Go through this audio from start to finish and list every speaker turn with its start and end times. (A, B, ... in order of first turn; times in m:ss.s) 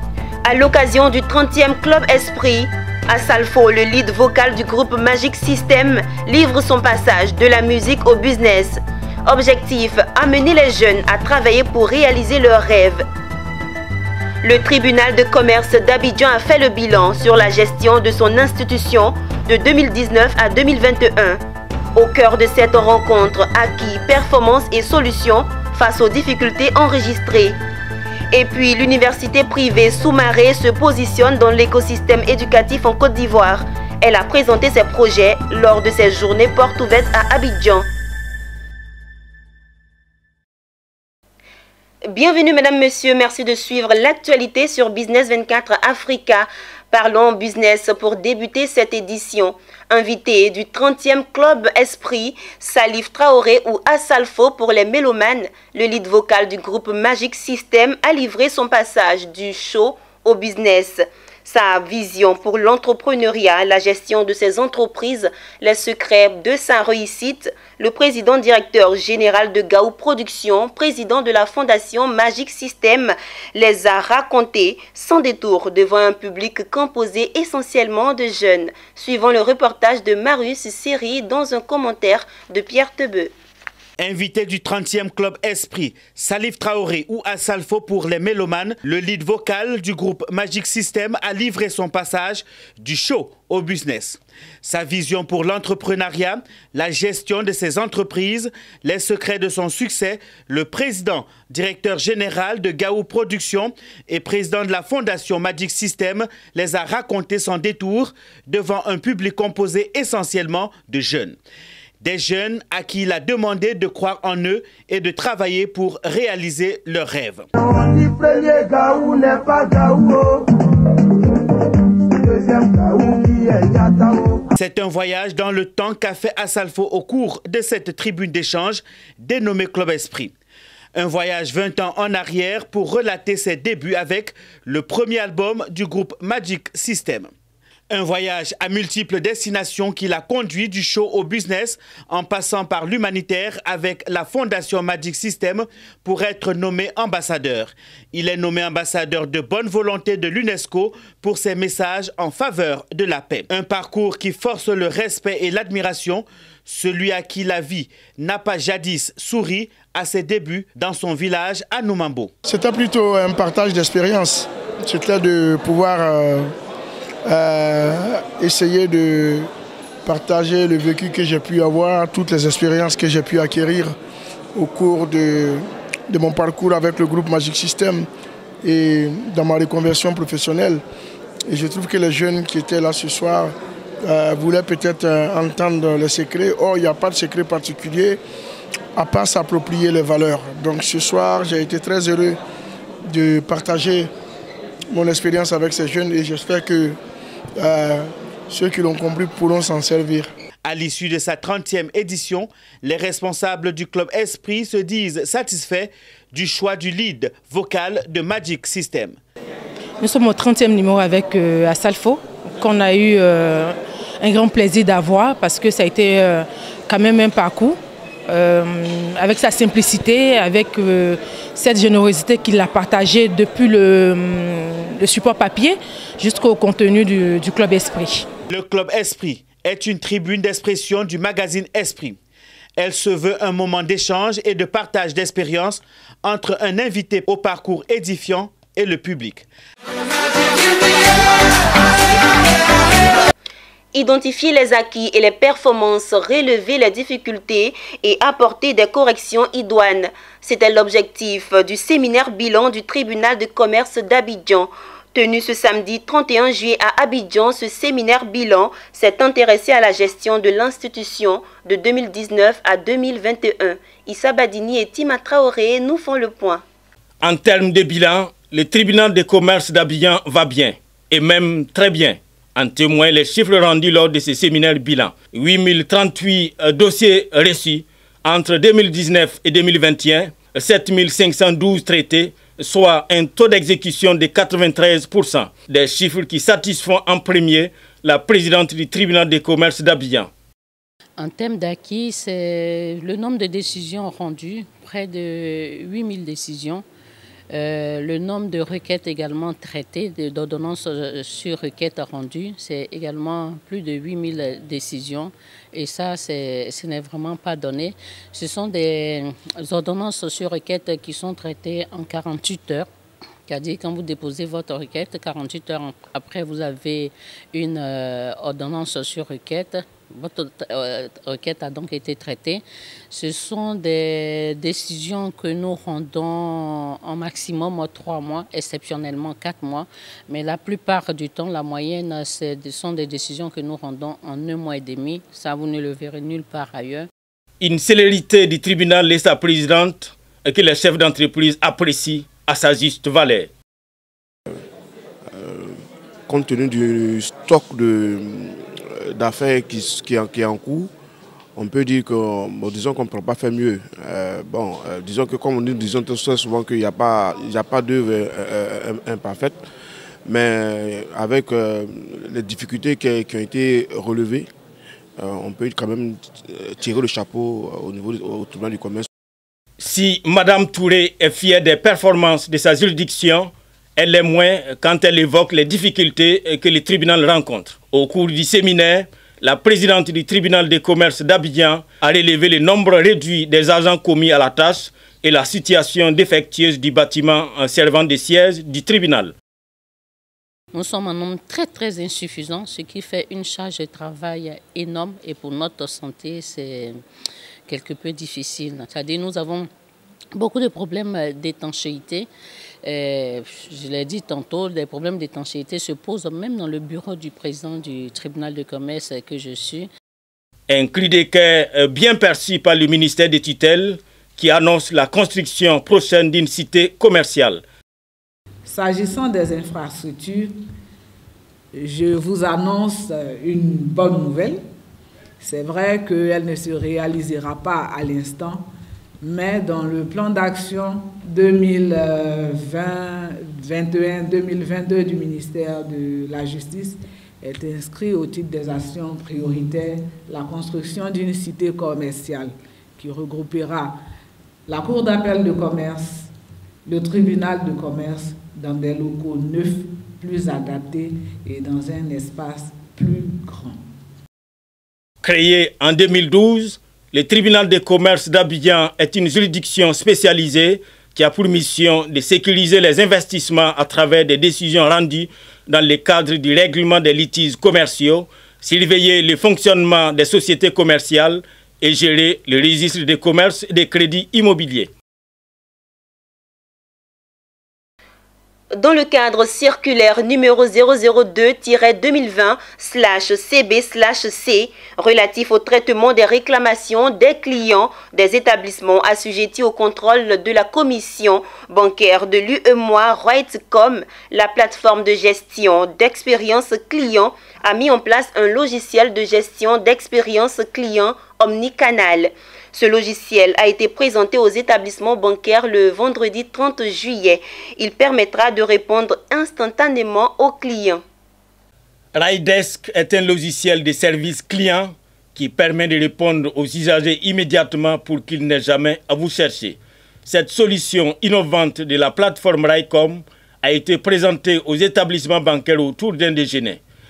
0:00.5-0:13.0 A
0:14.4-0:21.4 A
0:22.0-0:27.6 A
0:28.3-0:37.9 A
0:42.1-1:23.3 A
1:24.0-1:51.4 B
1:52.0-1:57.5 B
1:57.6-2:00.4 C
2:02.2-2:04.4 C
2:04.6-2:10.3 B
2:10.9-2:17.3 B
2:17.9-2:42.3 B
2:42.4-2:46.5 C
2:47.2-2:49.5 C
2:50.0-2:54.0 C
2:54.5-2:58.1 C
2:58.6-3:00.8 C
3:01.5-3:08.2 C
3:09.0-3:12.4 C
3:13.0-3:14.1 C
3:14.9-3:17.0 C
3:17.6-3:20.3 C
3:20.6-3:29.2 B
3:30.0-3:48.3 D
3:48.5-3:52.2 B
3:52.8-3:59.5 B
4:03.9-4:26.6 A
4:27.2-4:50.3 E
4:51.2-4:56.8 F
4:57.5-5:12.9 F
5:13.5-5:37.1 F
5:37.6-5:43.5 E
5:45.3-5:50.9 G
5:51.6-5:59.7 G
6:00.2-6:04.5 G
6:05.2-6:09.1 G
6:09.8-6:29.3 E
6:30.7-6:37.0 F
6:37.7-6:39.7 F
6:40.4-6:42.3 F
6:42.8-6:49.9 F
6:50.7-6:57.6 E
6:58.6-7:00.6 H
7:01.7-7:04.6 H
7:05.4-7:08.6 H
7:09.2-7:24.0 H
7:24.7-7:26.3 H
7:26.9-7:33.8 H
7:35.2-7:54.9 E
7:58.8-8:31.0 A
8:32.2-8:46.8 E